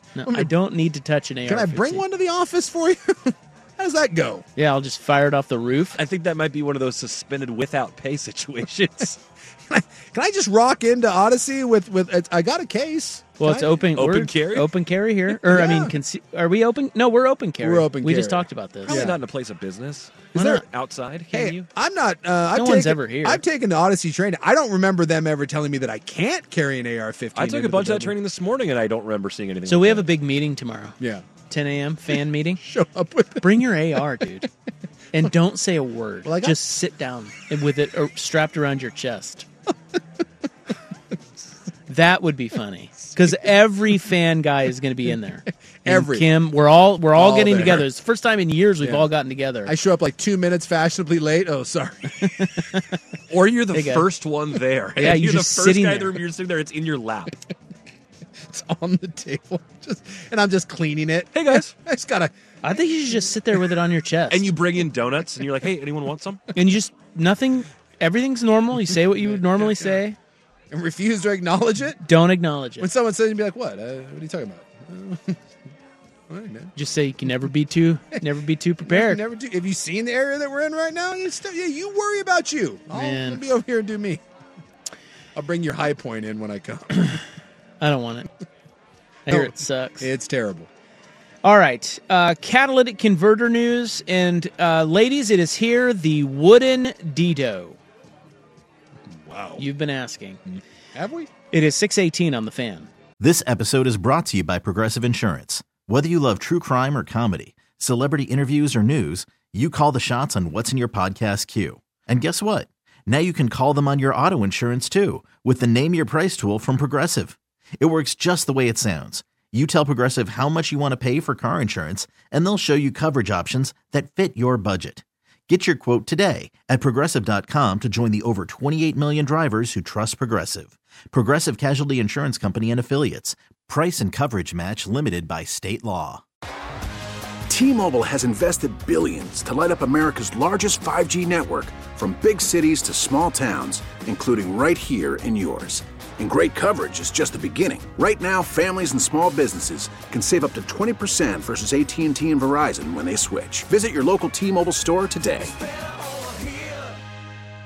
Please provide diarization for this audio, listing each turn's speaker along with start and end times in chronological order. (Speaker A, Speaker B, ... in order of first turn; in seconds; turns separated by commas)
Speaker A: 0.1-2.0, Speaker B: 1.5-4.4, Speaker A: 4.6-6.0, Speaker C: 5.9-9.2, Speaker B: 9.7-13.8, Speaker A: 13.4-19.0, Speaker C: 13.9-14.7, Speaker B: 15.4-15.9, Speaker B: 17.6-19.2, Speaker C: 18.9-21.7, Speaker B: 20.3-20.6, Speaker B: 21.3-28.1, Speaker A: 22.6-23.4, Speaker C: 27.4-30.1, Speaker A: 29.7-31.0, Speaker A: 31.5-32.6, Speaker B: 32.6-33.7, Speaker A: 33.4-34.5, Speaker A: 35.1-39.4, Speaker B: 36.2-36.6, Speaker A: 41.9-49.7, Speaker B: 45.8-46.3, Speaker B: 47.1-47.9, Speaker B: 49.6-52.6, Speaker A: 52.4-52.8, Speaker C: 53.3-57.4, Speaker A: 53.7-54.0, Speaker A: 55.0-56.2, Speaker B: 58.5-62.3, Speaker C: 61.3-61.7, Speaker A: 62.6-64.4, Speaker C: 64.3-66.4, Speaker A: 66.5-70.2, Speaker B: 69.2-70.0, Speaker B: 70.7-72.0, Speaker A: 72.0-72.9, Speaker B: 72.8-75.4, Speaker B: 76.3-76.7, Speaker A: 76.8-79.2, Speaker B: 78.8-84.2, Speaker A: 82.9-83.4, Speaker B: 85.3-87.2, Speaker A: 87.8-88.3, Speaker B: 89.3-90.7, Speaker A: 89.3-90.1, Speaker A: 91.4-97.8, Speaker B: 99.2-99.6, Speaker A: 99.6-100.4, Speaker B: 100.9-101.3, Speaker A: 101.5-102.9, Speaker D: 103.2-136.2, Speaker E: 137.5-155.6